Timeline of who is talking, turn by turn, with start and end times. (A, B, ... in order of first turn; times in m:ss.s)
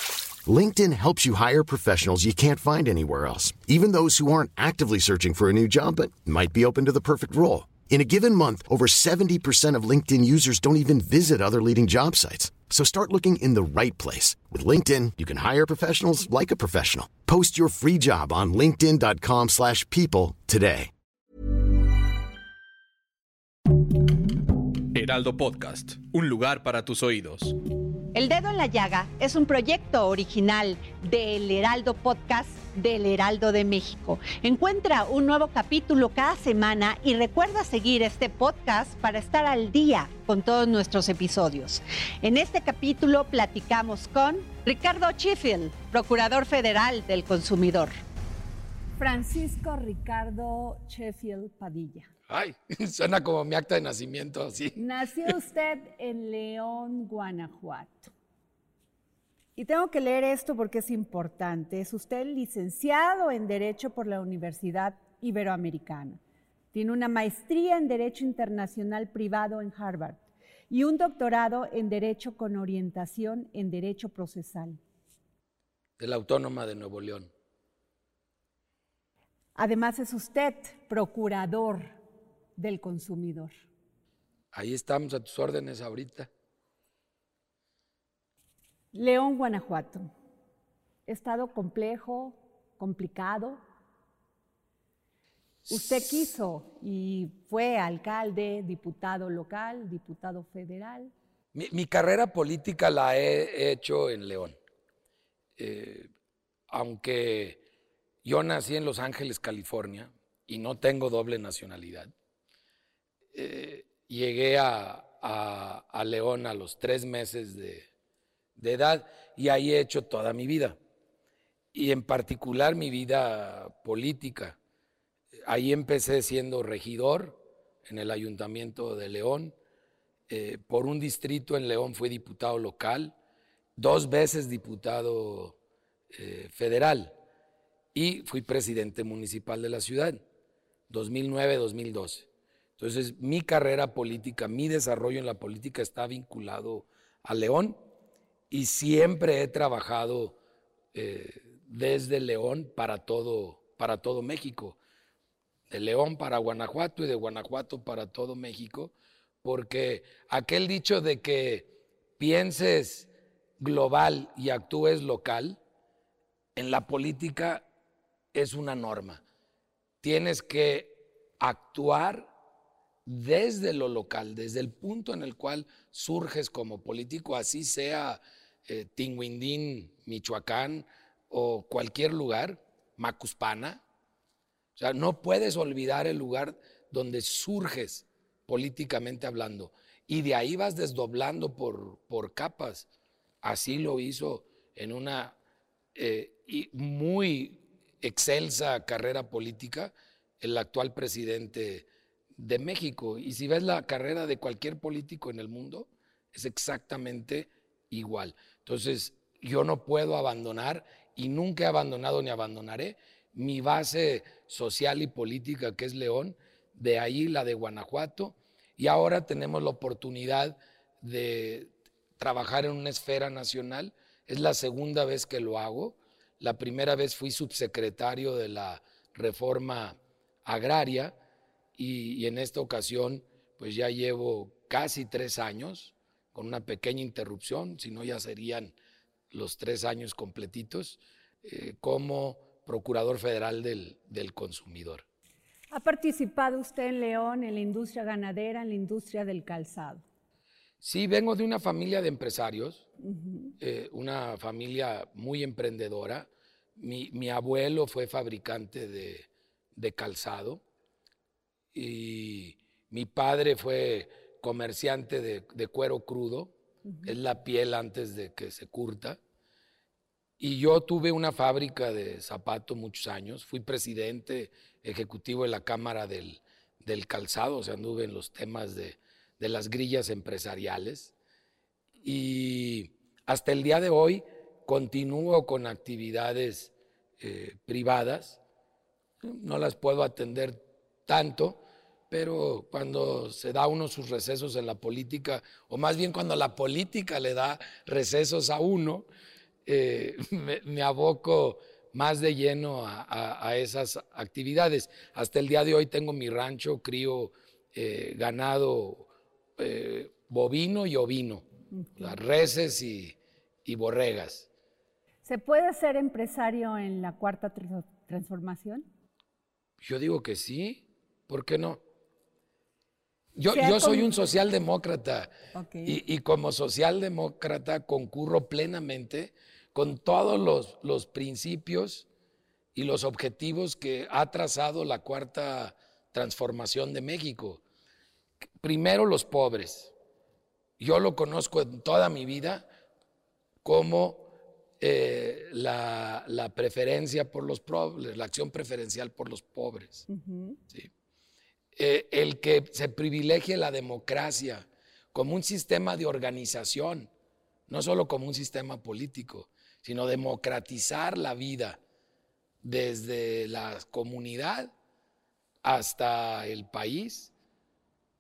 0:00.4-0:20.9 A
0:24.9-0:27.6 B
0:28.1-0:48.0 C
0:49.0-0:52.1 D
0:52.3-0:55.3 E
0:54.8-0:58.1 D
0:59.6-1:06.2 D
1:06.7-1:14.8 D
1:16.0-1:17.3 E
1:19.6-1:22.0 D
1:22.6-1:23.6 D
1:24.5-1:26.3 E
1:28.9-1:30.1 D
1:31.1-1:33.6 D
1:35.7-1:36.1 E
1:35.7-1:41.1 D
1:41.5-1:44.6 E
1:45.6-1:46.1 E
1:46.7-1:47.6 E
1:48.2-1:52.1 E
1:53.3-1:57.9 E
1:58.6-2:00.8 E
2:01.7-2:04.6 E
2:05.4-2:09.6 E
2:10.3-2:13.1 E
2:13.8-2:15.6 E
2:16.1-2:17.2 E
2:17.9-2:20.2 E
2:20.9-2:22.3 E
2:22.8-2:27.8 E
2:28.5-2:30.4 E
2:30.9-2:34.8 E
2:35.7-2:45.6 E
2:46.6-2:47.7 E
2:48.3-2:49.2 E
2:50.0-2:52.3 E
2:53.1-3:03.8 E
3:04.8-3:12.9 E
3:13.4-3:15.4 E
3:16.0-3:51.2 E
3:51.8-3:58.7 E
3:59.3-4:05.0 E
4:05.7-4:10.0 D
4:10.8-4:12.9 E
4:13.0-4:13.5 D
4:13.6-4:20.6 E
4:21.7-4:26.5 E
4:27.0-4:29.2 E
4:30.4-4:41.1 E
4:42.0-4:48.4 E
4:49.2-4:59.1 E
4:59.6-5:14.5 E
5:11.8-5:12.2 D
5:15.2-5:18.9 D
5:19.8-5:21.8 E
5:23.4-5:25.3 E
5:23.5-5:24.1 D
5:25.5-5:26.0 D
5:25.8-5:32.1 E
5:32.7-5:37.6 E
5:38.6-5:39.9 E
5:40.8-5:42.6 E
5:43.6-5:50.1 E
5:50.1-5:50.6 D
5:51.8-5:57.1 E
5:57.7-6:01.8 E
6:02.6-6:04.7 E
6:05.6-6:07.3 E